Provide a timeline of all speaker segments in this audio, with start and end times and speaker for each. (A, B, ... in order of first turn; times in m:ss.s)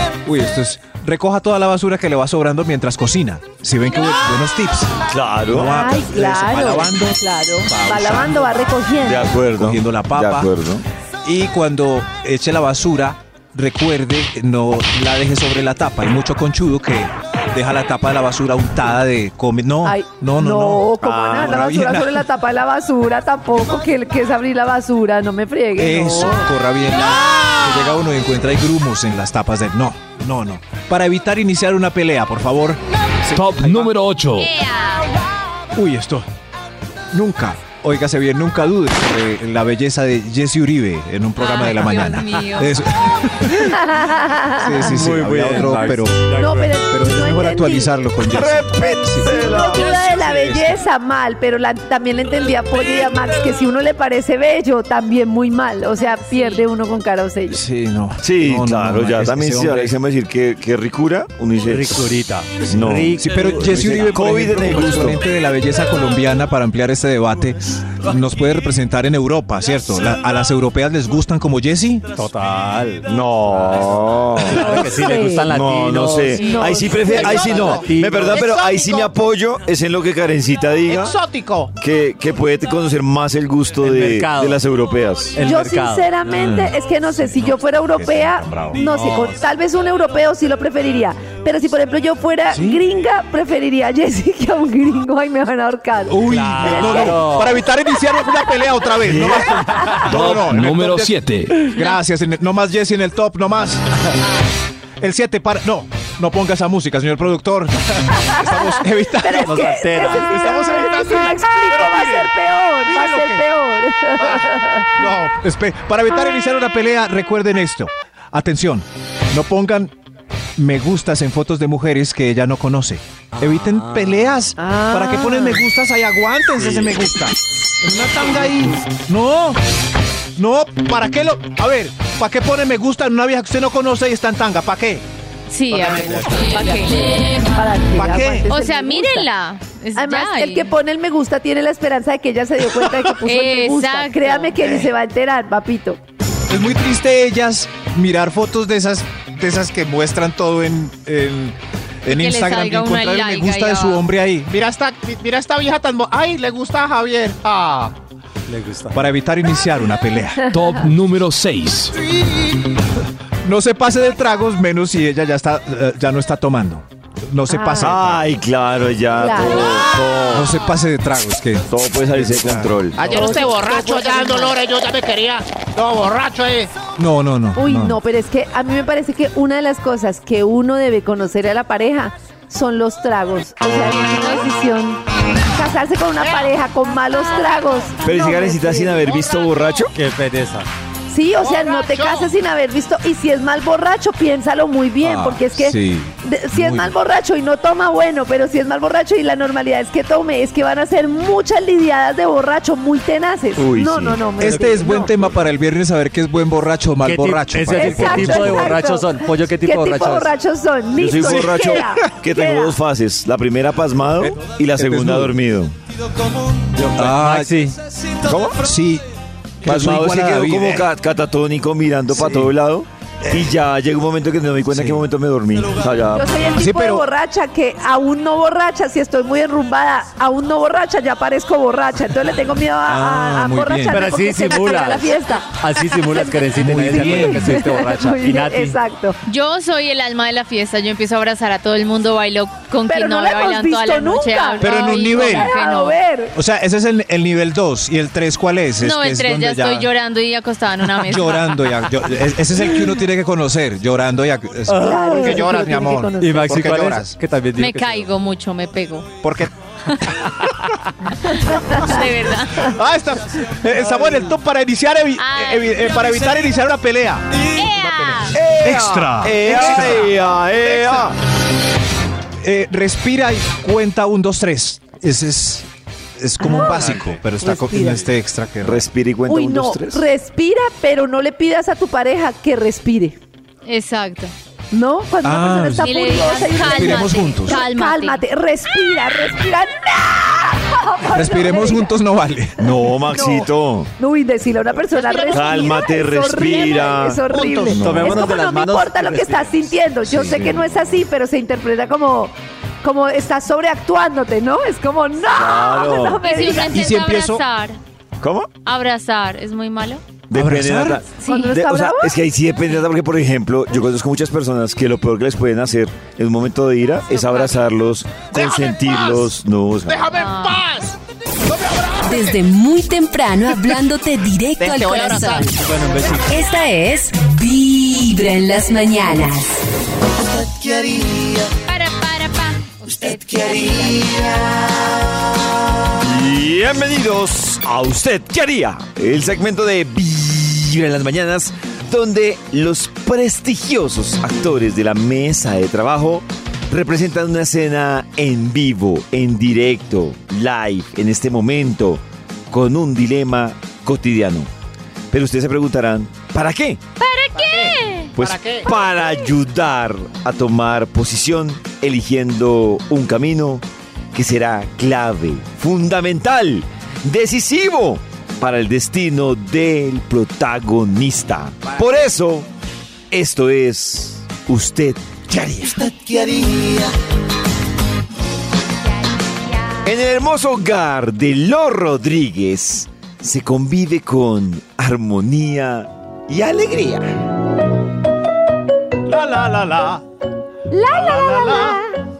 0:00.2-0:05.0 A
0:05.1-0:05.9 B
0:05.5-0:08.8 A
0:05.6-0:09.4 C
0:09.0-0:10.8 B
0:09.4-0:10.5 A
0:11.2-0:22.2 A
0:19.8-0:26.5 C
0:21.0-0:21.5 B
0:25.7-0:33.9 A
0:27.3-0:27.8 D
0:33.3-0:34.5 E
0:34.4-0:35.1 F
0:35.8-0:36.3 A
0:37.1-0:43.8 A
0:41.4-0:42.7 F
0:43.6-0:44.8 C
0:44.6-0:46.3 A
0:44.8-0:46.7 G
0:46.3-0:48.0 C
0:46.9-0:50.8 A
0:48.3-0:50.2 B
0:49.2-0:57.6 C
0:56.0-0:56.6 F
0:57.5-0:59.9 A
0:58.2-1:02.1 B
1:01.6-1:04.1 G
1:02.7-1:05.2 B
1:03.2-1:12.0 A
1:12.1-1:18.4 G
1:13.0-1:14.8 B
1:14.6-1:15.5 C
1:15.4-1:21.2 B
1:16.4-1:17.8 C
1:17.2-1:19.1 D
1:20.9-1:21.7 D
1:21.8-1:25.4 B
1:23.8-1:24.6 G
1:25.3-1:26.1 G
1:25.4-1:37.2 C
1:26.3-1:28.8 A
1:28.7-1:29.4 G
1:32.5-1:32.8 A
1:36.1-1:43.8 A
1:36.2-1:37.6 G
1:39.1-1:39.4 B
1:39.5-1:40.0 C
1:40.0-1:41.5 E
1:45.0-1:53.4 A
1:48.3-1:48.7 C
1:49.2-1:55.0 C
1:49.3-1:50.4 G
1:54.2-1:59.9 A
2:00.6-2:09.6 A
2:03.3-2:04.4 G
2:04.6-2:05.6 C
2:06.6-2:07.0 G
2:10.4-2:15.0 A
2:15.5-2:17.3 F
2:15.7-2:16.8 A
2:17.0-2:19.3 C
2:17.9-2:18.5 A
2:18.5-2:20.7 F
2:20.0-2:26.0 C
2:23.2-2:24.6 F
2:26.5-2:34.5 A
2:32.1-2:34.0 F
2:34.5-2:37.9 D
2:38.5-2:39.0 G
2:38.9-2:40.4 A
2:40.5-2:41.9 E
2:43.4-2:48.2 A
2:47.5-2:48.0 C
2:47.8-2:50.7 B
2:49.2-2:50.0 C
2:50.3-2:52.8 A
2:51.7-2:53.0 B
2:52.9-2:56.7 D
2:53.0-2:54.5 C
2:57.0-2:58.0 A
2:57.6-3:09.1 C
3:04.0-3:04.5 F
3:06.2-3:06.5 D
3:06.9-3:07.9 F
3:08.0-3:09.9 B
3:08.9-3:09.8 D
3:09.9-3:10.7 G
3:11.1-3:25.3 C
3:11.4-3:12.3 D
3:15.0-3:16.9 A
3:23.6-3:24.5 B
3:24.4-3:28.8 A
3:27.0-3:30.3 G
3:27.8-3:32.8 C
3:30.9-3:35.7 B
3:31.2-3:31.8 A
3:34.2-3:35.4 A
3:36.8-3:37.8 G
3:37.0-3:37.6 A
3:38.2-3:38.6 B
3:38.6-3:39.0 A
3:39.6-3:40.9 A
3:39.6-3:46.4 B
3:42.2-3:42.5 A
3:44.7-3:45.0 A
3:46.1-3:59.2 C
3:46.5-3:47.0 A
3:52.8-3:54.0 A
3:53.9-3:58.8 G
3:56.6-3:57.6 A
3:59.3-4:06.0 F
4:02.9-4:06.3 C
4:04.6-4:05.5 A
4:06.3-4:09.9 A
4:08.8-4:11.9 F
4:11.0-4:17.2 A
4:14.6-4:15.5 G
4:14.8-4:16.8 C
4:15.4-4:15.8 D
4:16.2-4:18.1 G
4:17.6-4:19.2 F
4:19.2-4:19.5 A
4:19.9-4:20.1 F
4:21.2-4:22.7 F
4:22.6-4:31.1 A
4:25.2-4:26.4 F
4:27.4-4:28.4 F
4:28.3-4:31.2 B
4:32.4-4:35.6 A
4:36.2-4:38.8 A
4:36.4-4:38.1 C
4:38.6-4:40.0 B
4:39.3-4:43.2 C
4:43.6-4:44.3 F
4:44.7-4:51.9 C
4:45.2-4:45.9 A
4:45.7-4:48.2 F
4:46.5-4:47.6 A
4:51.1-4:53.4 A
4:52.6-4:53.9 B
4:53.1-4:53.4 C
4:54.0-5:07.0 C
4:54.9-4:55.8 F
4:55.3-4:58.3 B
4:57.3-4:57.8 A
4:57.8-4:59.7 G
5:00.0-5:00.7 B
5:05.3-5:06.2 B
5:06.2-5:07.8 F
5:06.7-5:07.4 A
5:08.2-5:08.5 B
5:08.6-5:10.0 F
5:10.3-5:20.1 B
5:10.3-5:11.0 A
5:11.2-5:11.6 F
5:11.2-5:12.2 C
5:17.1-5:17.6 F
5:18.3-5:19.3 D
5:19.8-5:22.4 D
5:20.1-5:20.6 F
5:22.0-5:25.6 H
5:24.6-5:25.5 D
5:25.6-5:26.4 G
5:26.2-5:29.6 H
5:30.5-5:31.3 B
5:31.6-5:34.4 F
5:35.9-5:54.5 B
5:55.1-5:56.8 B
5:57.0-5:58.1 F
5:57.3-5:58.7 D
5:58.2-6:12.5 B
6:13.1-6:16.9 B
6:19.1-6:19.9 F
6:19.8-6:27.0 B
6:29.1-6:30.0 A
6:30.7-6:32.0 C
6:30.9-6:31.8 A